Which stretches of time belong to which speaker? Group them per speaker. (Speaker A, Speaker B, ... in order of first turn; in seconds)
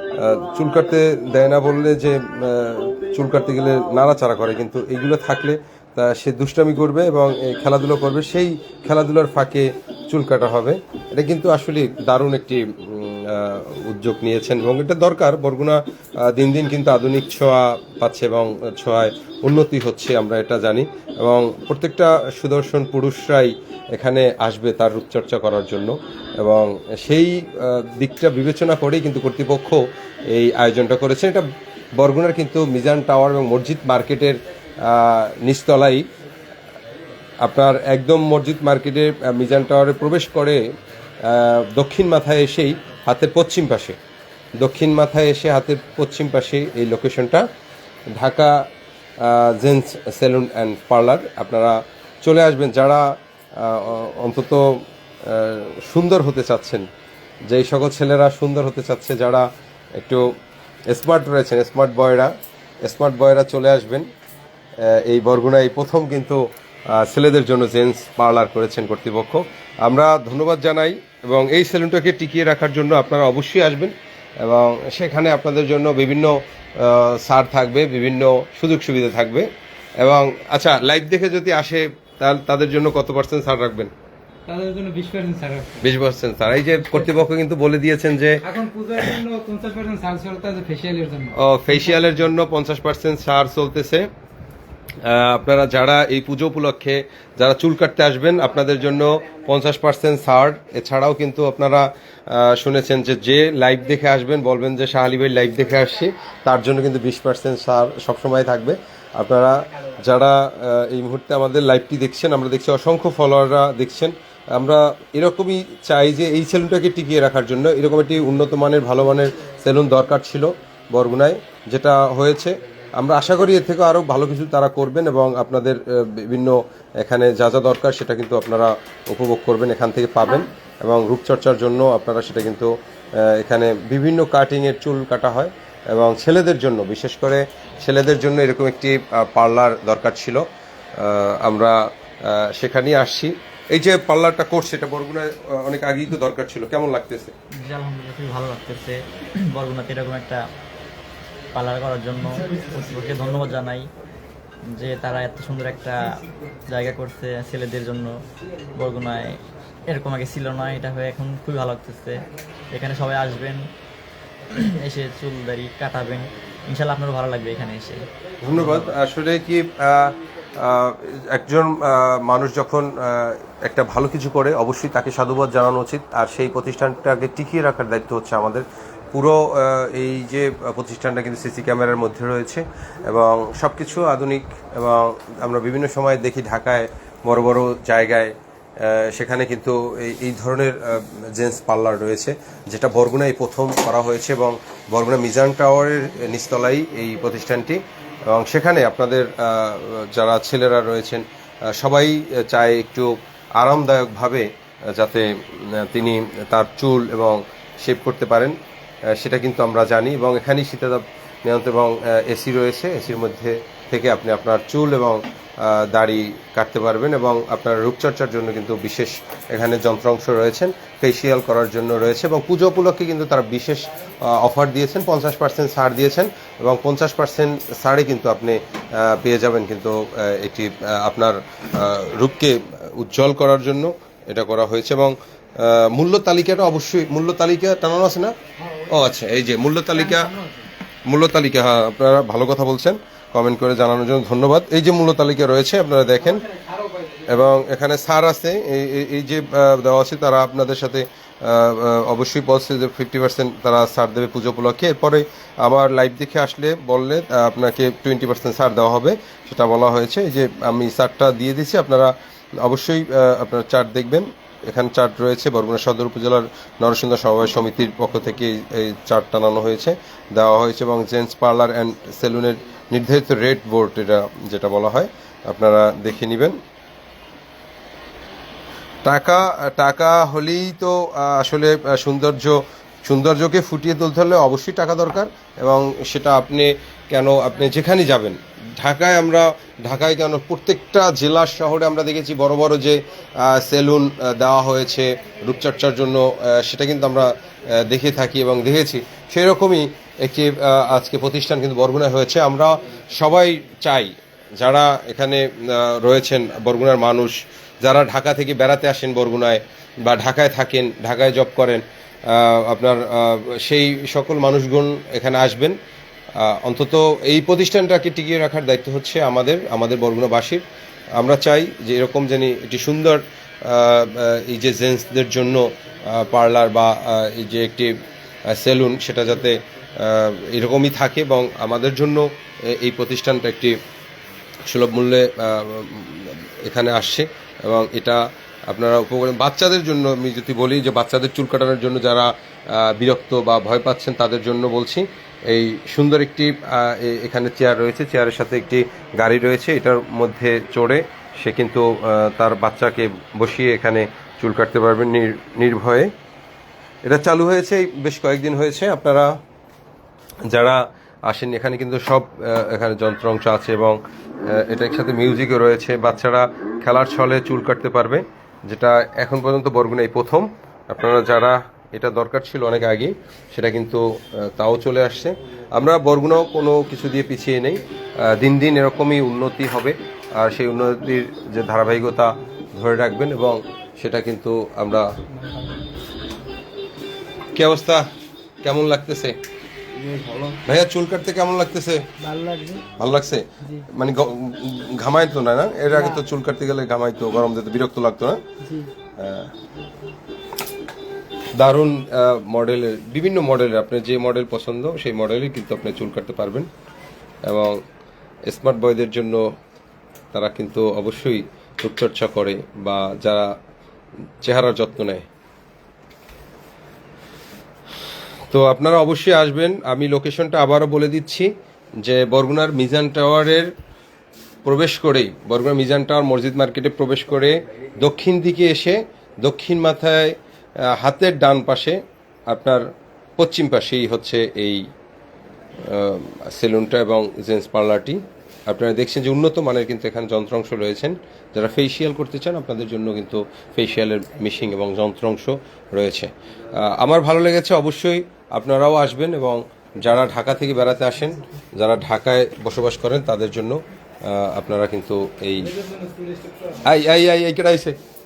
Speaker A: 0.2-31.4, 31.9-36.0, 37.4-40.6, 41.2-44.0, 44.6-47.4, 48.1-48.5, 49.2-56.8, 57.5-60.3, 60.9-62.3, 62.8-64.0, 64.8-66.4, 66.9-79.5, 80.0-83.9, 85.8-88.4, 91.3-94.1, 95.0-140.4, 140.9-147.3, 168.4-208.5, 209.1-238.3, 238.9-240.3, 241.1-246.4, 247.3-276.6, 279.0-315.8, 316.4-320.6, 321.2-327.9, 328.5-333.8, 334.7-356.1, 357.0-359.3, 360.5-385.1, 387.5-388.0, 388.6-389.4, 390.6-392.0, 393.0-398.4, 399.2-399.5, 401.6-406.7, 407.4-407.8, 408.5-409.4, 410.3-413.4, 414.4-415.2, 418.5-421.5, 422.0-423.7, 424.6-430.4, 430.9-432.8, 433.4-434.8, 435.8-455.8, 456.8-458.0
Speaker B: 84.5-85.9, 88.4-92.2, 239.9-240.7, 246.2-247.6, 385.3-385.7, 390.0-390.6, 392.2-392.8, 395.9-396.2, 398.6-398.9, 455.7-456.8
Speaker C: 147.6-149.0, 149.5-150.4, 151.5-153.9, 154.7-158.2, 158.7-163.7, 164.6-168.9